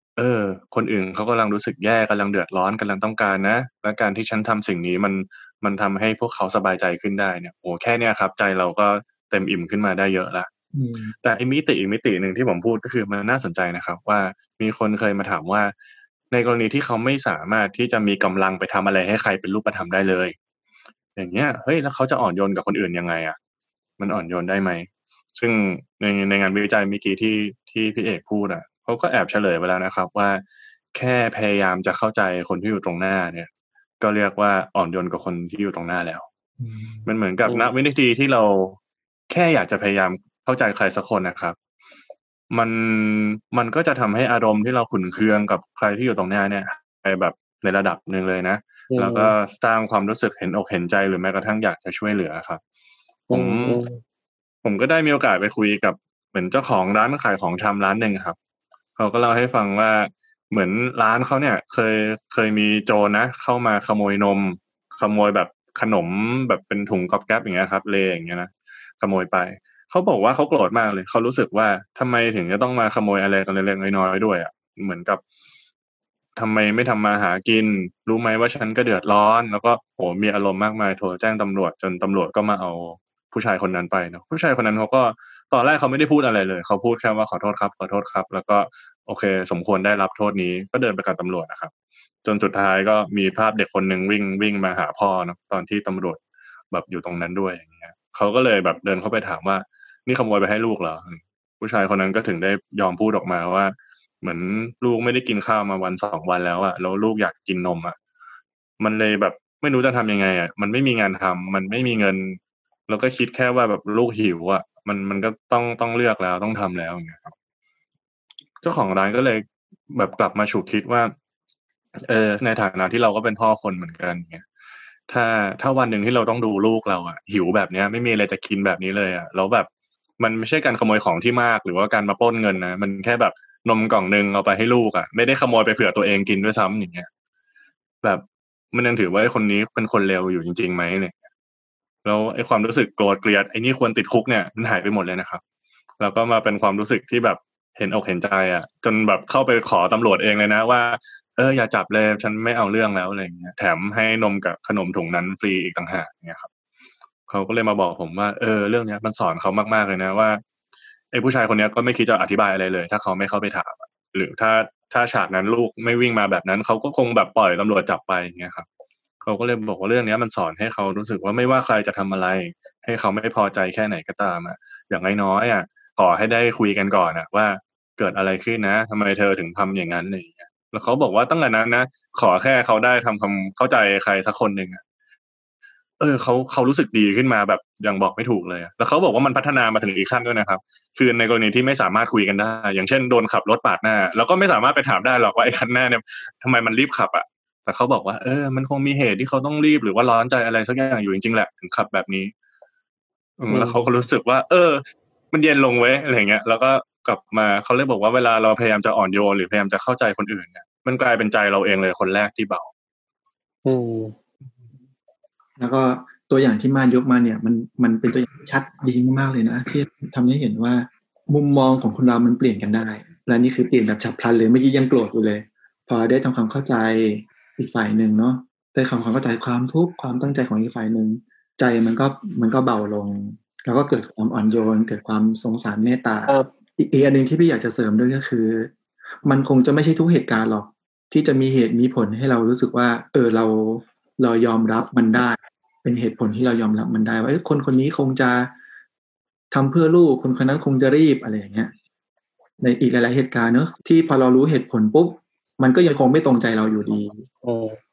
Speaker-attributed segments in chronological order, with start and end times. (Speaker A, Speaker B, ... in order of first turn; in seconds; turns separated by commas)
Speaker A: 0.2-10.5, Speaker B: 10.7-11.2, Speaker A: 11.2-15.7, Speaker A: 16.3-20.4, Speaker A: 21.2-23.4, Speaker A: 24.0-30.4, Speaker A: 30.9-33.5, Speaker A: 34.0-36.3, Speaker B: 36.6-37.1, Speaker A: 37.0-38.8, Speaker C: 37.5-37.7, Speaker A: 39.3-41.6, Speaker A: 42.5-52.6, Speaker C: 48.9-49.3, Speaker C: 53.3-54.0, Speaker A: 53.3-53.8, Speaker A: 54.6-58.4, Speaker A: 59.0-75.2, Speaker A: 76.4-91.7, Speaker A: 92.2-96.2, Speaker A: 96.7-108.0, Speaker A: 108.8-117.3, Speaker A: 118.6-121.1, Speaker A: 122.0-124.4, Speaker A: 125.1-129.7, Speaker A: 130.2-137.1, Speaker A: 138.0-141.3, Speaker A: 142.1-145.4, Speaker A: 146.0-156.5, Speaker A: 157.3-160.4, Speaker A: 161.1-168.7, Speaker A: 169.2-184.8, Speaker A: 186.0-202.3, Speaker A: 203.4-204.8, Speaker C: 203.5-203.9, Speaker A: 205.3-212.7, Speaker C: 213.7-214.2, Speaker B: 215.6-238.7, Speaker B: 239.2-248.5, Speaker B: 249.5-251.7, Speaker B: 252.6-257.3, Speaker C: 257.4-257.8